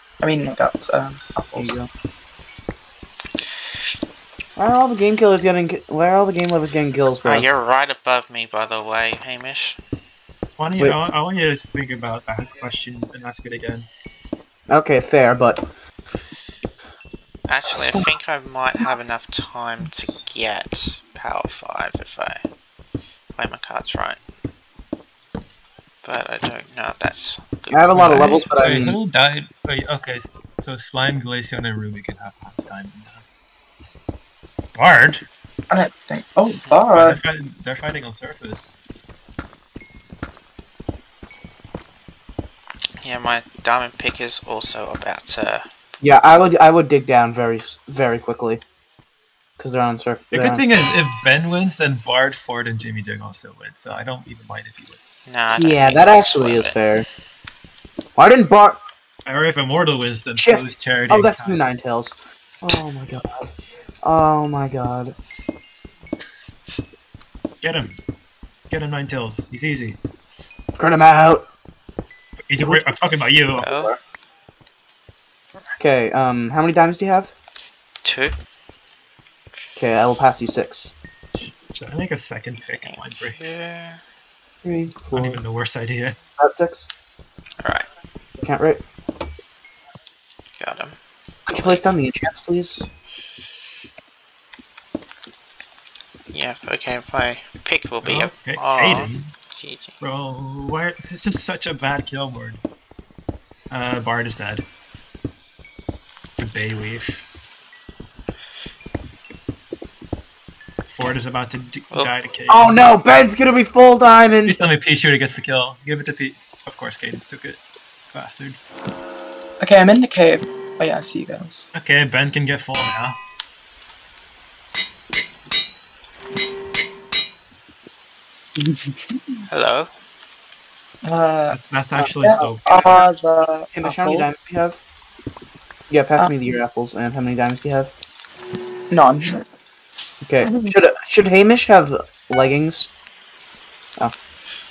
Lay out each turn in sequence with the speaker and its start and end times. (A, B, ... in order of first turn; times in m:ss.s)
0:00.2-0:01.8 A
0:01.5-0:01.9 B
0:04.6-0:07.5 B
0:07.2-0:09.8 C
0:10.6-0:13.9 D
0:14.7-0:15.6 B
0:17.5-0:22.4 C
0:23.4-0:24.2 C
0:26.0-0:28.5 C
0:27.7-0:29.0 B
0:27.9-0:33.2 D
0:34.7-0:35.2 D
0:35.7-0:37.2 A
0:36.9-0:38.8 D
0:43.0-0:45.6 C
0:46.0-0:48.6 B
0:49.6-0:50.6 B
0:50.3-0:55.2 D
0:55.2-0:56.8 C
0:55.5-0:57.0 B
0:58.1-0:58.8 B
0:59.2-1:01.6 D
1:00.4-1:05.1 B
1:07.6-1:08.0 D
1:08.7-1:10.0 D
1:10.8-1:11.5 B
1:12.4-1:13.7 D
1:12.6-1:13.0 B
1:13.6-1:13.9 C
1:13.6-1:14.0 B
1:15.8-1:17.3 B
1:18.0-1:18.4 C
1:19.7-1:20.9 B
1:21.3-1:23.6 D
1:22.8-1:24.0 C
1:24.6-1:25.4 B
1:25.1-1:26.2 D
1:26.4-1:26.9 B
1:27.6-1:27.9 C
1:28.4-1:28.8 B
1:30.6-1:31.0 C
1:31.5-1:32.9 B
1:31.5-1:31.8 C
1:36.3-1:39.9 C
1:38.0-1:39.3 D
1:40.0-1:42.6 D
1:43.7-1:44.6 D
1:46.4-1:47.2 D
1:50.9-1:52.9 D
1:52.5-1:54.6 B
1:54.4-1:57.6 D
1:58.1-1:58.6 D
1:59.6-2:01.7 A
2:01.7-2:03.2 D
2:08.6-2:09.1 A
2:09.5-2:09.9 C
2:11.0-2:11.6 A
2:11.5-2:13.0 D
2:12.0-2:12.5 B
2:12.2-2:14.3 A
2:13.7-2:14.8 B
2:15.9-2:17.9 B
2:18.9-2:19.4 A
2:20.2-2:22.9 B
2:20.4-2:20.7 A